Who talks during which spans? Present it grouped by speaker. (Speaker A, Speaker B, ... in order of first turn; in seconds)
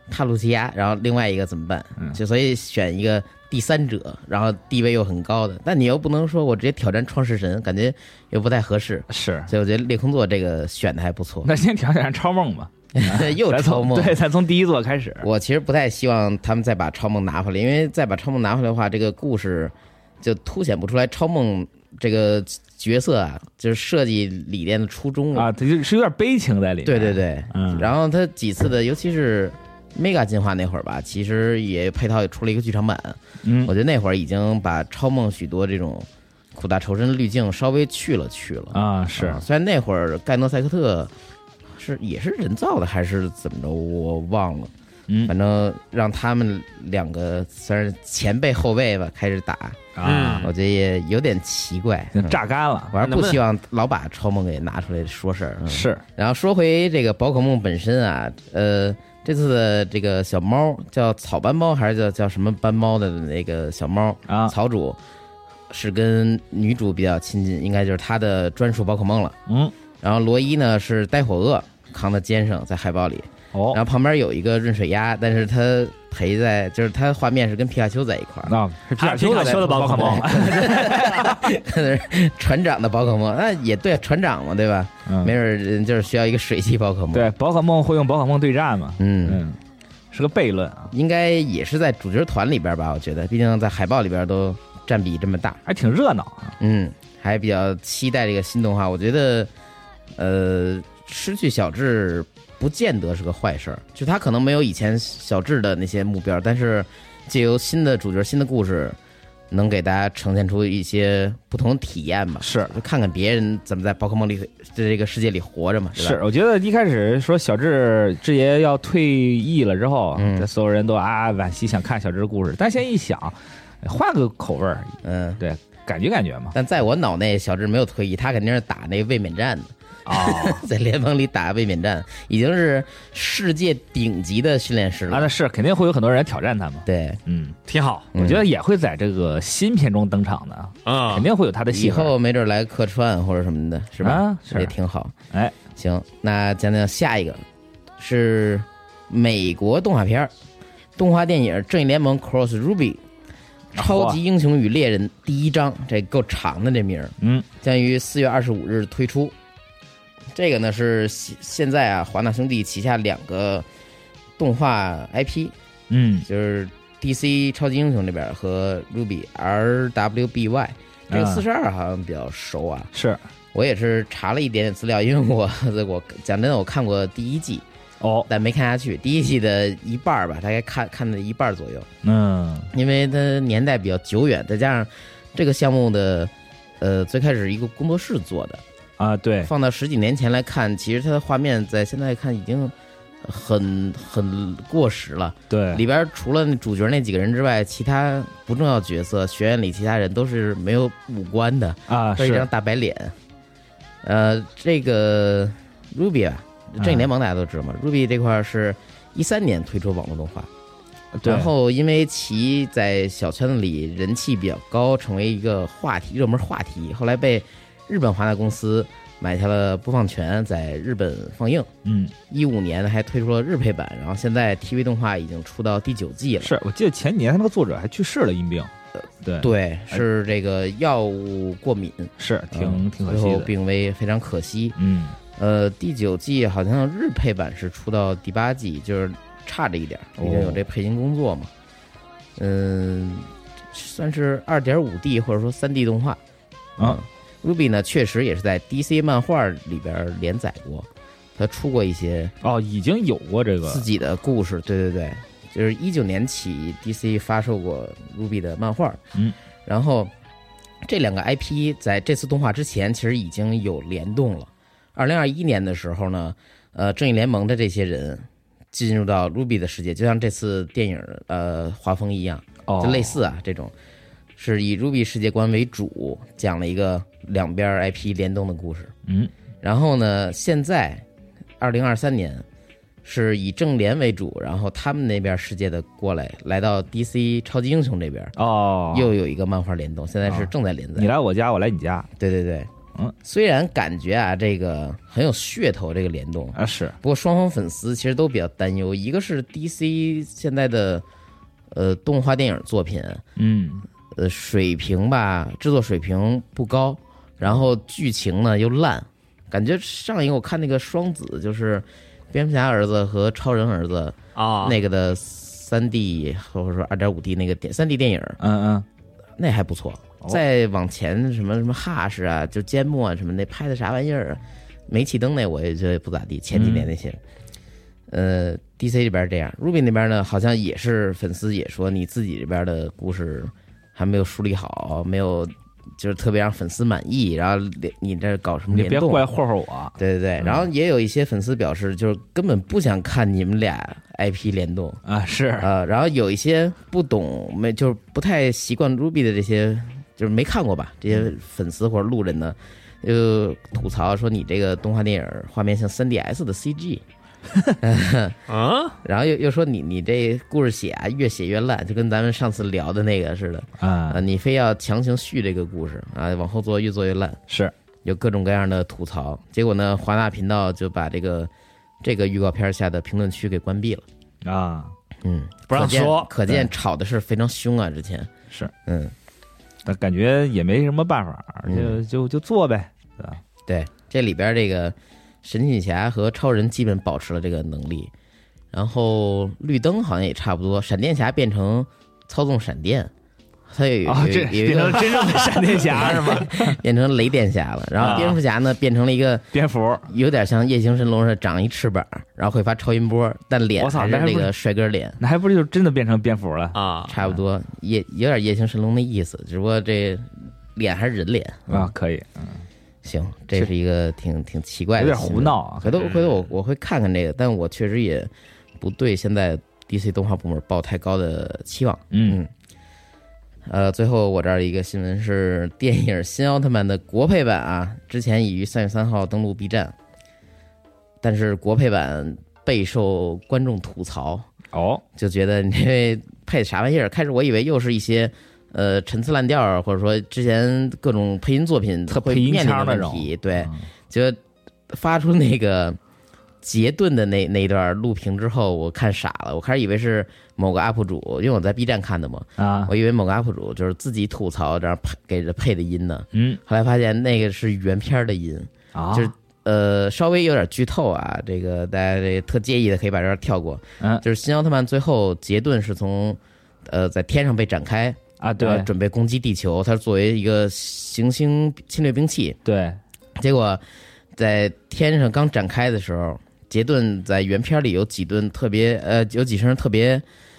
Speaker A: 0.1-11.5, 12.9-14.2, 15.2-25.5, 26.9-41.1, 41.8-44.7, 45.3-65.0, 65.7-69.4, 70.0-78.6, 79.3-87.3, 89.0-89.4, 90.9-95.6, 96.6-99.5, 100.2-109.0, 109.5-116.2, 120.2-120.5, 125.0-125.4, 126.5-135.3, 136.9-137.2, 138.1-138.5, 141.7-145.1, 145.8-147.4, 148.0-150.3, 151.0-153.0, 153.8-159.3, 160.3-163.7, 164.4-165.5, 166.2-172.9, 173.5-177.7, 178.3-181.9, 182.7-188.6, 189.4-192.7, 193.2-203.1, 204.0-210.5, 211.2-221.7, 222.3-226.6, 229.4-234.8, 235.4-241.5, 242.4-246.2, 246.8-252.3, 253.7-259.0, 259.7-260.1, 260.8-273.7, 274.4-278.9, 279.6-281.0, 281.6-282.4, 283.0-288.4, 288.9-291.1, 292.2-292.7, 293.2-301.0, 301.7-303.2, 304.1-318.4, 319.4-327.2, 328.1-339.3, 340.0-345.0, 345.6-357.0, 357.8-358.4, 359.0-367.4, 368.1-371.5, 372.0-374.1, 375.2-378.3, 378.9-379.1, 381.7-382.0, 383.7-388.1, 388.7-393.1, 393.7-399.5, 400.1-405.2, 407.1-411.9, 413.0-422.5, 423.7-429.9, 431.2-434.5, 435.2-444.4, 444.9-446.0, 446.6-472.6, 473.4-473.8, 474.4-480.2
Speaker B: 9.1-9.5, 11.4-15.3, 25.3-27.9, 33.4-33.7, 38.7-39.4, 45.1-45.3, 50.0-50.5, 52.1-53.0, 55.7-56.0, 64.3-64.5, 69.5-69.7, 73.5-73.8, 78.5-81.5, 85.1-85.3, 87.1-89.6, 90.1-90.9, 95.7-96.5, 112.4-112.8, 116.0-126.5, 130.1-130.7, 135.1-137.6, 138.2-142.1, 144.0-144.7, 153.8-154.2, 157.2-157.5, 165.9-166.3, 171.1-171.4, 172.9-173.2, 178.0-178.3, 182.0-182.7, 189.0-189.5, 195.5-195.8, 201.9-202.5, 206.8-207.1, 211.2-211.5, 221.8-222.2, 226.4-228.7, 229.2-230.0, 232.2-233.5, 234.8-235.2, 240.2-240.6, 252.4-253.9, 272.7-273.2, 279.1-279.3, 288.4-289.1, 290.3-292.1, 296.6-297.0, 303.4-303.9, 318.4-318.9, 326.5-326.9, 338.7-340.7, 345.1-345.7, 363.8-364.2, 374.4-374.9, 379.9-383.4, 394.1-396.8, 398.0-398.4, 399.5-400.1, 403.8-404.5, 405.2-407.4, 411.7-412.6, 415.0-416.0, 422.1-422.4, 434.7-435.0, 442.1-443.8, 452.6-452.9, 456.3-456.6, 458.9-459.3, 468.4-468.9, 472.6-473.0
Speaker C: 50.0-50.5, 53.0-53.4, 79.0-81.0, 137.7-138.1, 140.8-141.3, 314.4-314.8, 358.5-359.0, 375.7-376.3, 398.1-398.3, 406.7-407.1, 416.0-416.4